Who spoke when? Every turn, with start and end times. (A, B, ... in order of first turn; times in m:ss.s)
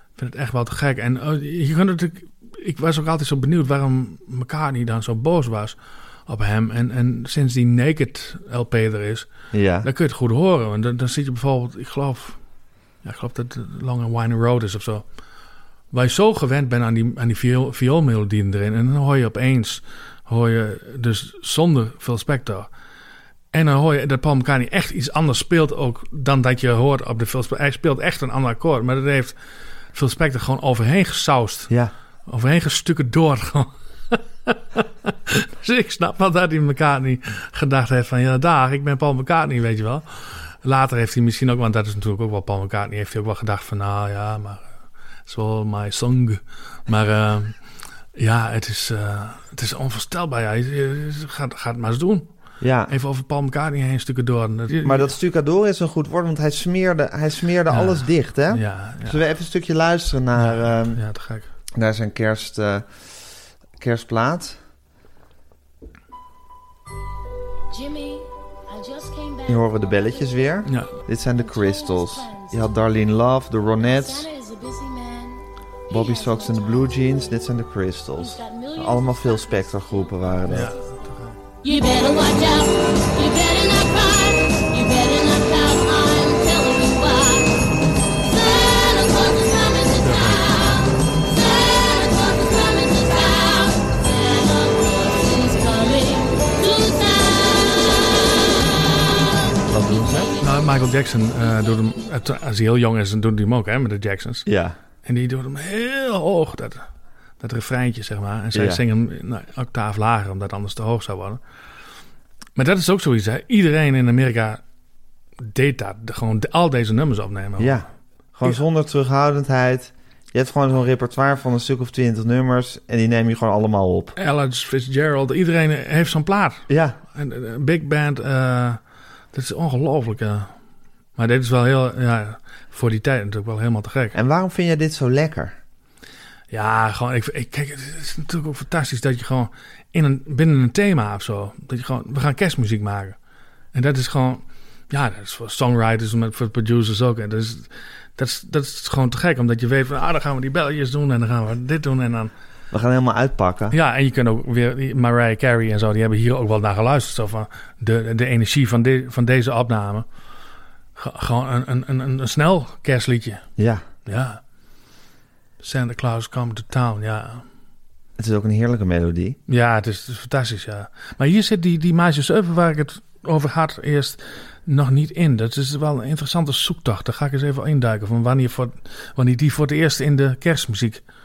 0:00.1-0:15.1 A
0:09.5-0:09.9 B
0:15.9-0:22.7 A
0:23.5-0:29.4 A
0:29.9-0:55.1 A
0:52.6-0:52.9 B
0:54.8-1:01.2 B
0:57.7-0:59.2 A
1:00.4-1:01.5 A
1:01.8-1:03.1 B
1:03.8-1:04.6 B
1:07.7-1:10.6 C
1:09.4-1:14.3 B
1:10.6-1:11.0 A
1:11.3-1:12.8 C
1:13.8-1:17.4 C
1:15.9-1:20.7 B
1:18.2-1:20.7 C
1:20.5-1:21.4 A
1:21.6-1:27.7 C
1:28.2-1:40.4 C
1:30.0-1:30.6 A
1:39.7-1:40.3 B
1:40.4-1:44.5 A
1:44.4-1:44.8 B
1:45.0-1:51.4 A
1:48.5-1:48.8 B
1:52.5-1:54.6 A
1:55.4-1:58.6 A
1:57.6-2:04.2 B
2:04.2-2:08.8 A
2:06.7-2:07.0 B
2:09.3-2:10.6 A
2:11.1-2:14.2 A
2:14.1-2:15.5 B
2:16.5-2:23.2 A
2:23.7-2:32.3 A
2:32.7-2:33.8 B
2:33.7-2:40.1 A
2:40.9-2:43.5 A
2:43.6-2:43.8 B
2:44.0-2:44.5 A
2:45.6-2:47.5 A
2:48.2-2:49.4 B
2:49.5-3:01.0 A